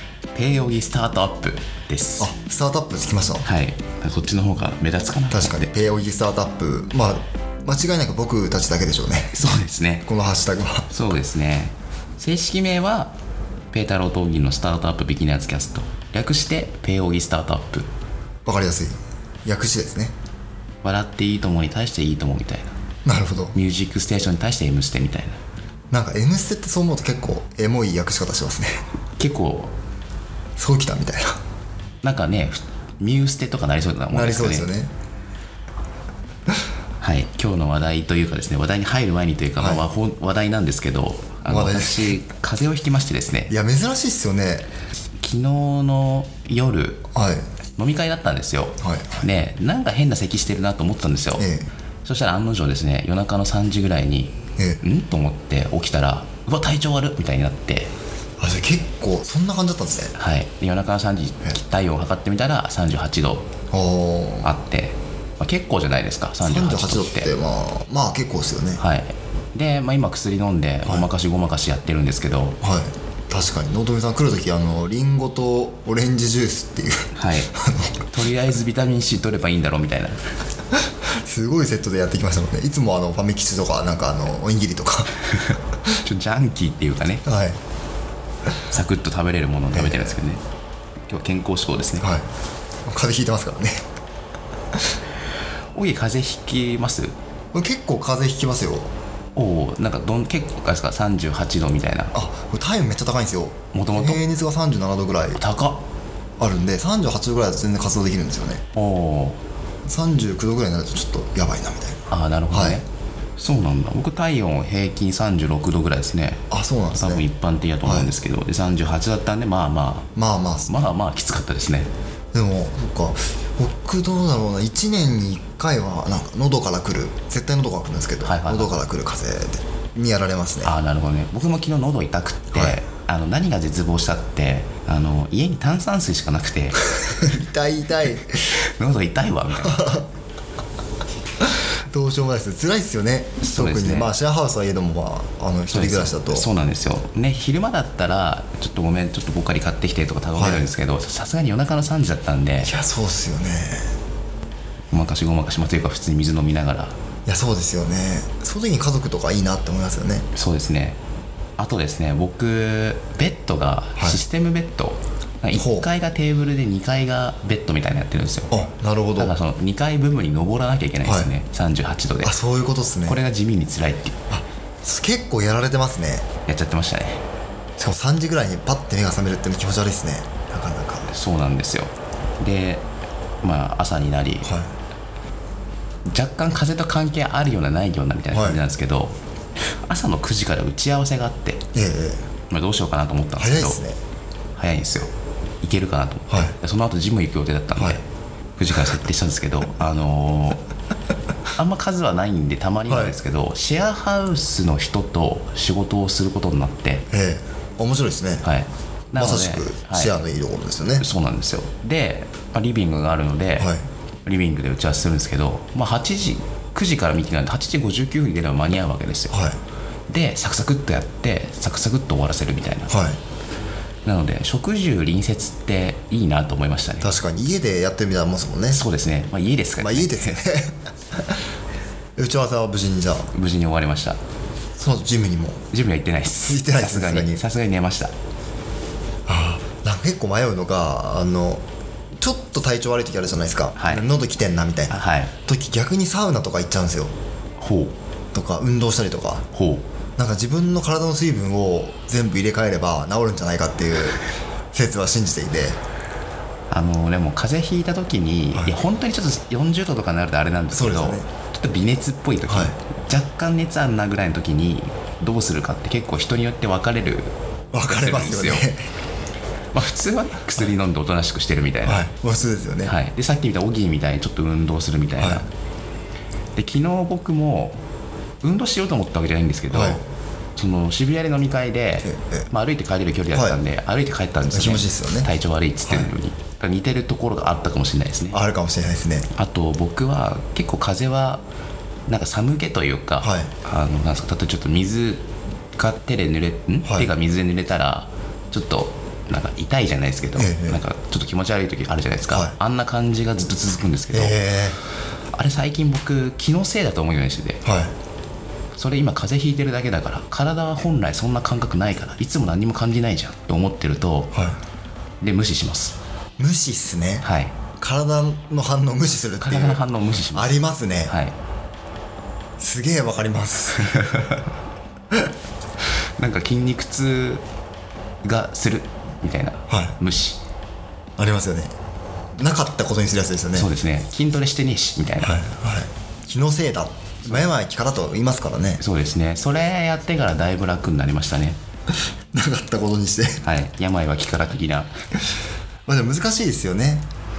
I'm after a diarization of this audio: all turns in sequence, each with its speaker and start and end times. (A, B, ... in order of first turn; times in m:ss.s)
0:00.3-0:02.3 A
0:02.2-0:03.4 B
0:03.4-0:05.7 A
0:05.3-0:10.9 B
0:09.4-0:10.1 A
0:10.9-0:13.1 A
0:13.7-0:17.9 A
0:18.4-0:20.1 B
0:20.8-0:22.7 A
0:23.0-0:23.6 B
0:23.5-0:25.4 A
0:25.9-0:28.8 B
0:29.2-0:29.7 A
0:30.6-0:31.4 B
0:32.0-0:34.7 A
0:34.1-0:34.9 B
0:37.0-0:43.5 A
0:41.5-0:42.1 B
0:43.5-0:44.7 B
0:45.2-0:47.1 A
0:47.1-0:47.4 B
0:47.8-0:51.5 A
0:48.8-0:49.2 B
0:51.4-0:51.7 B
0:52.0-0:57.9 A
0:58.4-1:00.1 B
1:00.1-1:03.5 A
1:03.7-1:04.5 B
1:04.4-1:07.3 A
1:06.4-1:08.8 B
1:08.8-1:12.6 A
1:12.6-1:18.1 B
1:17.1-1:17.5 A
1:18.1-1:20.2 A
1:21.2-1:25.1 B
1:25.3-1:27.2 A
1:27.2-1:27.6 B
1:28.7-1:30.4 A
1:29.7-1:30.1 B
1:31.1-1:32.1 A
1:32.9-1:33.8 B
1:35.7-1:37.1 A
1:37.5-1:38.9 B
1:39.4-1:42.2 A
1:42.1-1:45.4 B
1:43.7-1:44.2 A
1:45.3-1:45.8 A
1:46.4-1:48.6 B
1:48.7-1:49.4 A
1:49.8-1:52.8 B
1:52.1-1:52.8 A
1:53.4-2:00.1 A
1:56.5-1:57.2 B
1:57.8-1:58.1 B
2:00.2-2:00.7 B
2:00.7-2:01.9 A
2:02.3-2:10.7 B
2:08.2-2:08.8 A
2:10.6-2:16.8 A
2:17.0-2:18.4 B
2:18.5-2:20.0 A
2:19.6-2:20.0 B
2:21.9-2:26.5 B
2:23.4-2:24.1 A
2:25.7-2:32.7 A
2:30.3-2:30.7 B
2:32.6-2:33.9 B
2:34.9-2:36.9 A
2:37.3-2:40.2 B
2:40.3-2:41.0 A
2:41.6-2:48.6 A
2:45.5-2:45.9 B
2:48.5-2:49.4 B
2:49.2-2:52.4 A
2:51.0-2:51.3 B
2:52.2-2:53.2 B
2:53.0-2:54.1 A
2:54.3-2:56.3 B
2:56.4-2:57.2 A
2:57.8-3:01.1 B
3:01.1-3:02.8 A
3:03.4-3:04.5 A
3:04.4-3:04.7 B
3:06.1-3:11.6 A
3:08.3-3:08.6 B
3:11.7-3:12.2 B
3:12.5-3:13.8 A
3:13.4-3:14.0 B
3:14.6-3:15.1 A
3:15.6-3:18.0 A
3:16.3-3:16.5 B
3:18.6-3:20.6 A
3:21.5-3:27.0 A
3:22.9-3:23.1 B
3:27.1-3:28.4 B
3:28.4-3:30.2 A
3:29.2-3:31.0 B
3:31.0-3:33.7 A
3:33.6-3:33.8 B
3:34.2-3:39.4 A
3:39.3-3:39.6 B
3:40.1-3:43.0 A
3:42.9-3:43.2 B
3:44.0-3:47.1 A
3:47.0-3:48.8 B
3:48.7-3:50.4 A
3:49.8-3:50.8 B
3:52.2-3:53.3 B
3:53.3-3:54.2 A
3:54.8-3:55.6 B
3:55.7-3:58.1 A
3:56.4-3:57.4 B
3:59.2-4:01.6 B
4:02.2-4:07.1 B
4:03.8-4:04.0 A
4:04.9-4:05.3 A
4:07.6-4:07.9 A
4:08.3-4:09.5 B
4:09.5-4:09.8 A
4:10.2-4:14.2 B
4:14.7-4:15.8 B
4:16.7-4:28.7 A
4:20.7-4:21.3 B
4:22.5-4:22.7 B
4:27.7-4:28.8 B
4:29.7-4:32.0 A
4:31.8-4:32.9 B
4:32.8-4:35.5 A
4:35.2-4:35.4 B
4:36.6-4:37.8 A
4:38.4-4:40.0 A
4:39.7-4:40.0 B
4:40.6-4:48.4 A
4:42.0-4:42.5 B
4:43.3-4:43.6 B
4:44.5-4:45.3 B
4:48.3-4:49.3 B
4:49.3-4:51.4 A
4:52.1-5:04.4 A
4:53.2-4:53.5 B
4:56.8-4:57.1 B
5:00.4-5:00.8 B
5:04.1-5:04.8 B
5:05.3-5:07.6 A
5:07.6-5:07.9 B
5:08.8-5:14.3 A
5:15.2-5:16.0 A
5:16.4-5:17.2 B
5:17.2-5:17.5 A
5:17.8-5:21.1 B
5:19.4-5:20.6 A
5:21.1-5:21.4 A
5:22.6-5:24.0 B
5:23.8-5:24.4 A
5:26.2-5:27.4 A
5:28.2-5:30.4 A
5:29.7-5:30.0 B
5:31.2-5:31.7 B
5:32.4-5:33.7 B
5:33.5-5:35.4 A
5:35.2-5:38.8 B
5:38.8-5:41.6 A
5:42.3-5:43.4 B
5:43.4-5:44.9 A
5:45.9-5:47.0 B